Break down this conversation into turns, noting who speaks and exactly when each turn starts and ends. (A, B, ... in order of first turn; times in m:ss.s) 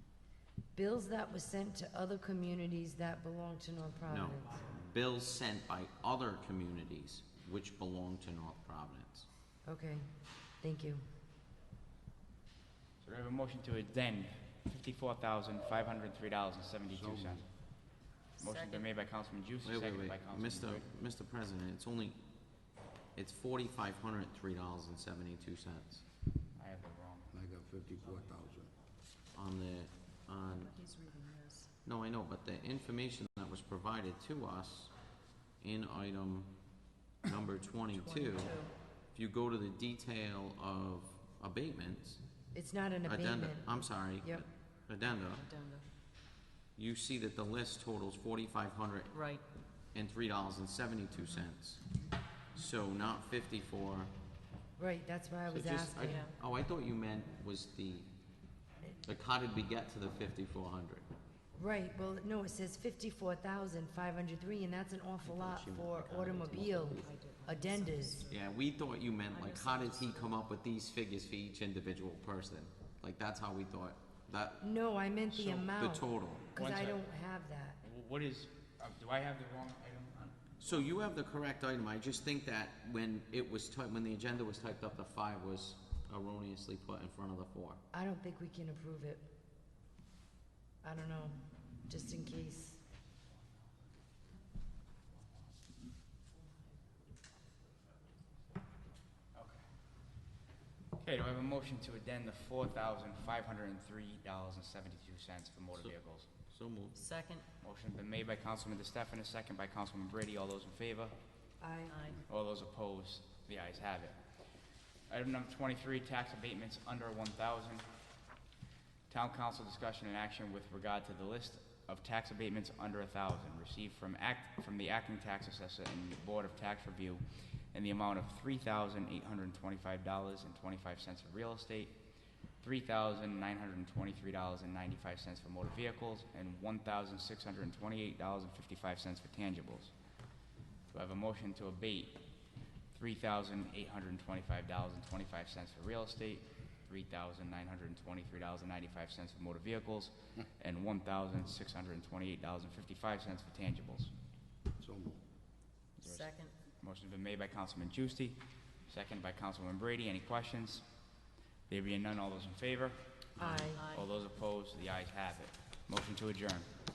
0:00.7-0:04.6 A
0:04.1-0:09.3 B
0:09.6-0:10.1 A
0:10.6-0:11.0 A
0:13.0-0:17.5 C
0:16.9-0:17.4 D
0:18.4-0:20.9 C
0:18.4-0:18.9 E
0:19.6-0:22.2 B
0:23.1-0:26.0 B
0:26.6-0:27.3 C
0:27.3-0:28.7 D
0:29.3-0:30.7 B
0:30.5-0:31.7 E
0:31.8-0:34.9 B
0:35.6-0:36.5 B
0:37.2-0:38.6 B
0:37.9-0:38.7 E
0:39.1-0:42.2 B
0:42.5-0:44.4 A
0:43.0-0:45.4 B
0:45.2-0:45.8 E
0:46.8-0:49.1 B
0:49.1-0:49.4 E
0:49.9-0:51.8 B
0:52.5-0:54.1 B
0:54.8-0:56.2 A
0:55.5-0:58.1 B
0:56.1-0:56.3 E
0:59.0-1:01.0 B
1:01.5-1:08.2 A
1:05.2-1:07.1 B
1:06.4-1:08.4 E
1:08.3-1:14.6 B
1:09.3-1:10.4 E
1:14.6-1:17.8 A
1:15.3-1:16.5 B
1:16.5-1:17.0 C
1:17.8-1:20.8 C
1:20.6-1:27.8 B
1:27.9-1:29.2 A
1:30.8-1:32.8 A
1:39.3-1:39.6 C
1:41.0-1:46.3 C
1:46.5-1:47.0 B
1:46.9-1:47.4 E
1:47.6-1:51.1 C
1:51.6-1:52.0 A
1:51.9-1:52.2 E
1:52.3-1:54.2 C
1:55.1-1:57.9 C
1:59.1-2:12.0 C
2:12.6-2:19.9 C
2:20.9-2:22.2 C
2:22.9-2:34.1 C
2:34.8-2:35.2 D
2:36.0-2:40.8 C
2:36.0-2:36.5 E
2:41.7-2:46.7 C
2:43.4-2:43.8 A
2:43.4-2:43.7 D
2:43.7-2:44.0 E